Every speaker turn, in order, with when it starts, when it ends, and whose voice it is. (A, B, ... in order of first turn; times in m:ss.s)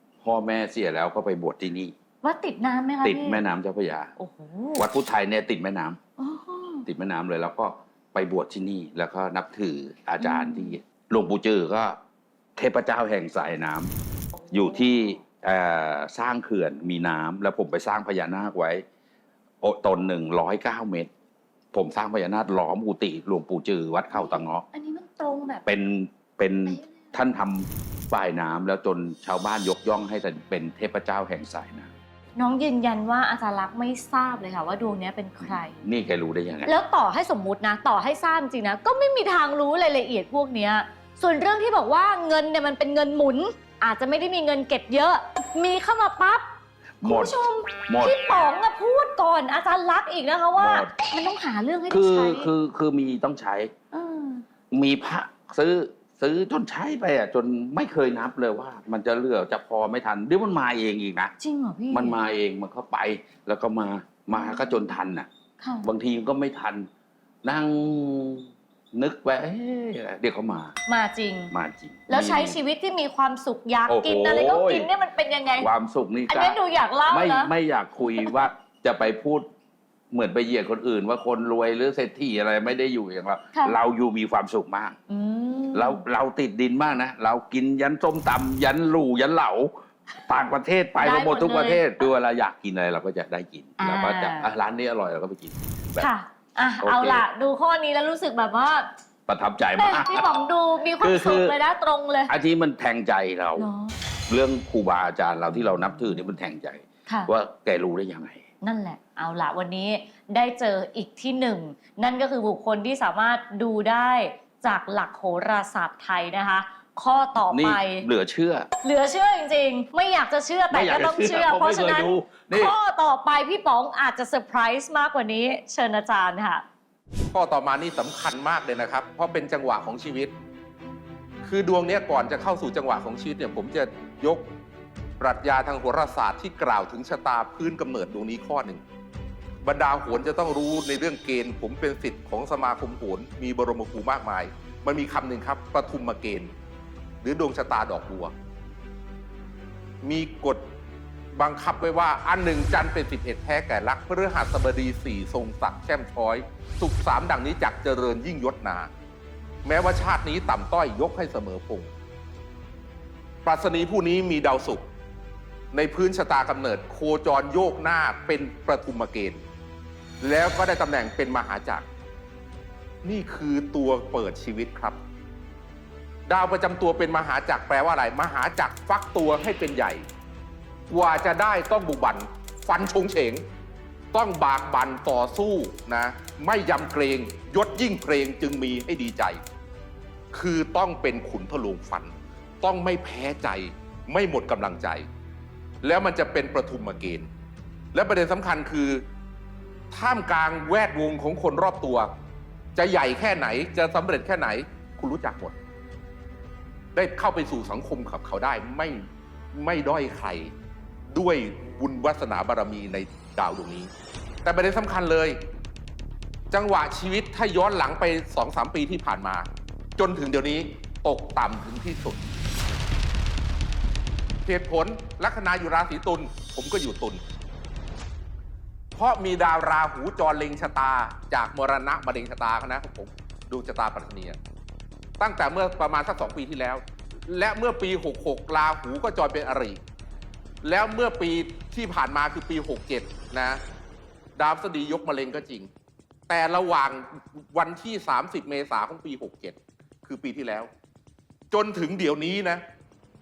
0:00.2-0:01.9 A
0:02.2-0:03.4 B
0:03.0-0:04.1 A
0:04.2-0:04.9 B
0:04.8-0:06.0 A
0:06.2-0:06.8 B
0:06.8-0:12.0 A
0:10.2-0:10.8 B
0:12.6-0:13.9 A
0:14.4-0:15.2 B
0:14.5-0:18.8 A
0:19.6-0:21.1 A
0:21.7-0:24.6 A
0:24.1-0:25.7 B
0:25.6-0:31.9 A
0:26.6-0:27.1 B
0:32.4-0:35.8 B
0:35.4-0:36.7 A
0:36.6-0:46.4 B
0:47.0-0:48.2 A
0:47.0-0:52.5 B
0:50.5-0:50.9 A
0:51.9-0:53.7 A
0:53.9-0:54.4 B
0:54.7-1:01.3 A
1:01.4-1:02.2 B
1:01.9-1:05.3 A
1:04.3-1:04.7 B
1:05.6-1:05.8 B
1:05.8-1:06.9 A
1:07.4-1:10.8 A
1:10.9-1:11.5 B
1:11.5-1:12.6 A
1:12.1-1:15.7 B
1:13.9-1:14.9 A
1:15.6-1:19.5 A
1:16.3-1:17.5 B
1:18.0-1:18.5 B
1:20.1-1:25.0 A
1:25.1-1:26.0 B
1:25.7-1:36.1 A
1:31.0-1:32.1 B
1:33.8-1:34.5 B
1:36.0-1:38.9 B
1:36.8-1:37.2 A
1:39.3-1:40.4 A
1:39.7-1:42.3 B
1:41.0-1:41.6 A
1:42.3-1:43.7 A
1:43.6-1:44.0 B
1:44.3-1:48.4 A
1:48.6-1:58.1 B
1:57.4-1:58.7 A
1:58.8-2:06.6 B
2:00.7-2:02.7 A
2:07.3-2:10.3 C
2:11.4-2:14.5 C
2:15.2-2:18.8 C
2:19.6-2:26.5 C
2:27.2-2:28.3 C
2:30.0-2:30.6 C
2:31.3-2:38.9 C
2:39.6-2:41.9 C
2:43.4-2:44.8 C
2:45.7-2:49.4 C
2:50.2-2:51.8 C
2:53.0-2:55.0 C
2:56.3-3:00.0 C
3:00.9-3:03.4 C
3:04.1-3:09.4 C
3:10.3-3:15.1 C
3:15.8-3:17.3 C
3:17.9-3:19.0 C
3:19.9-3:22.1 C
3:22.8-3:25.5 C
3:26.9-3:30.5 C
3:31.1-3:33.9 C
3:34.4-3:35.4 C
3:36.5-3:39.4 C
3:40.0-3:42.2 C
3:44.4-3:47.2 C
3:48.9-3:54.4 C
3:55.2-3:59.8 C
4:00.6-4:03.6 C
4:04.4-4:05.7 C
4:06.3-4:10.7 C
4:11.5-4:12.6 C